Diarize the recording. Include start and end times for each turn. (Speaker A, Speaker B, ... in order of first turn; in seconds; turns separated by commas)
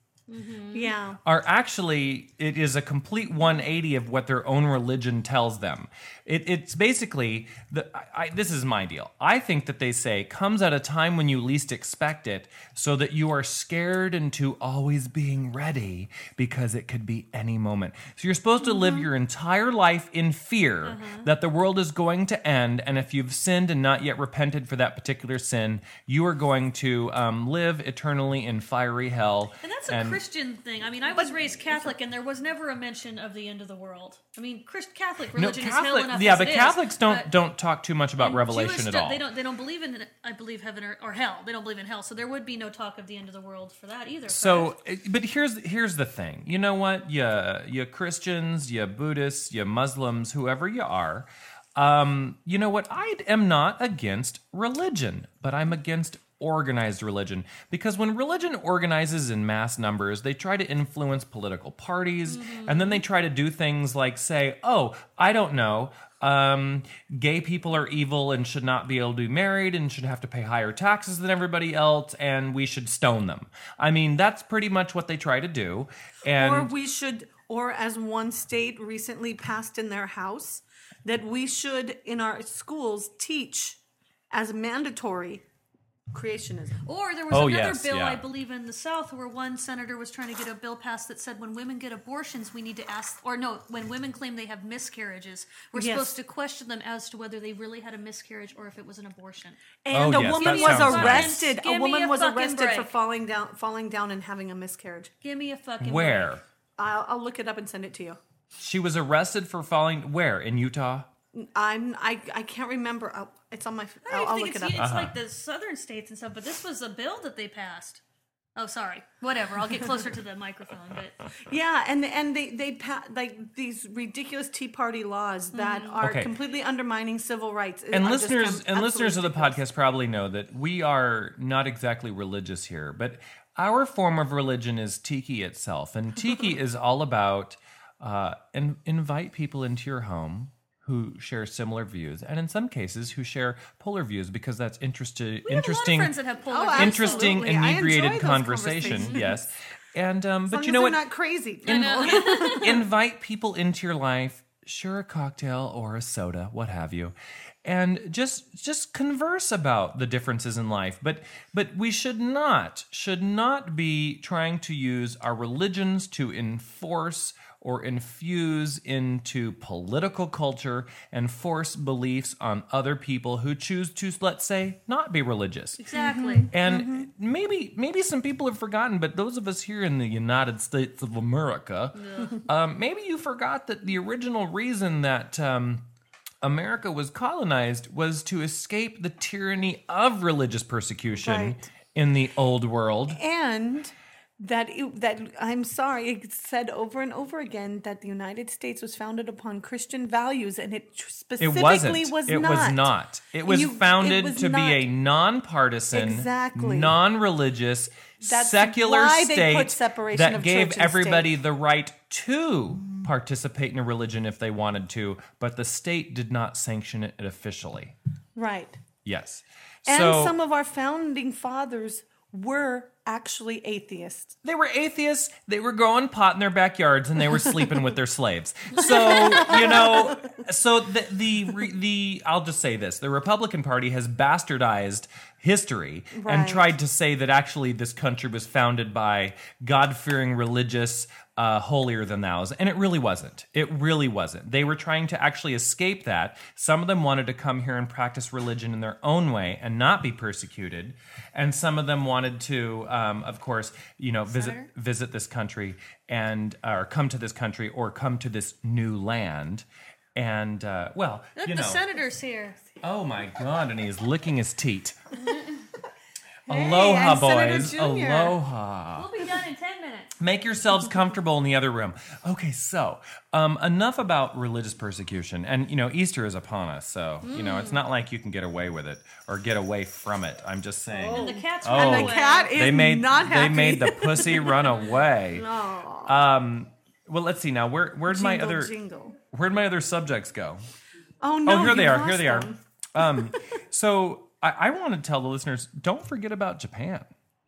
Speaker A: 0.3-0.9, Speaker B: 0.7-1.2, Speaker C: 1.2-30.2, Speaker A: 20.8-21.3, Speaker A: 29.6-37.3, Speaker B: 31.1-31.9, Speaker C: 35.3-39.2, Speaker A: 38.2-44.7, Speaker C: 44.3-76.7, Speaker A: 62.2-63.0, Speaker B: 76.2-83.8, Speaker B: 84.3-85.4, Speaker B: 86.1-86.8, Speaker A: 86.8-99.6, Speaker C: 87.3-88.2, Speaker B: 95.7-96.2, Speaker B: 99.8-105.1, Speaker C: 99.9-101.4, Speaker A: 100.2-102.9, Speaker A: 105.2-106.3, Speaker C: 105.8-106.4, Speaker B: 106.8-108.2, Speaker C: 108.6-111.1, Speaker B: 111.3-114.8, Speaker A: 114.0-118.0, Speaker C: 114.8-115.1, Speaker A: 118.5-121.2, Speaker B: 121.4-129.6, Speaker A: 125.5-126.0, Speaker C: 126.0-126.3, Speaker C: 127.9-146.1, Speaker A: 145.4-147.4, Speaker B: 146.5-149.3, Speaker C: 146.7-151.0, Speaker A: 148.9-149.3, Speaker B: 150.5-152.8, Speaker C: 151.6-175.8, Speaker A: 151.7-152.8, Speaker A: 175.8-176.5, Speaker B: 175.9-177.1, Speaker C: 176.5-185.8, Speaker A: 181.9-182.4, Speaker C: 186.4-193.2, Speaker B: 191.2-191.7, Speaker B: 193.1-202.9, Speaker C: 201.4-217.9, Speaker B: 203.4-204.9, Speaker B: 205.9-206.9, Speaker B: 208.2-211.3, Speaker B: 218.3-218.8, Speaker C: 219.0-220.4, Speaker B: 219.8-224.4, Speaker C: 224.4-261.8, Speaker B: 228.8-230.4, Speaker B: 236.1-236.7, Speaker A: 254.3-254.7, Speaker A: 261.4-262.6, Speaker C: 262.8-265.0, Speaker B: 266.5-268.4, Speaker C: 266.5-269.1, Speaker A: 268.9-270.1, Speaker C: 270.2-285.4, Speaker A: 277.2-277.8, Speaker B: 280.9-284.8, Speaker A: 281.1-282.5, Speaker B: 285.3-286.2, Speaker C: 286.1-288.7, Speaker B: 288.1-289.2, Speaker C: 289.3-290.6, Speaker B: 291.2-293.5, Speaker C: 291.4-297.1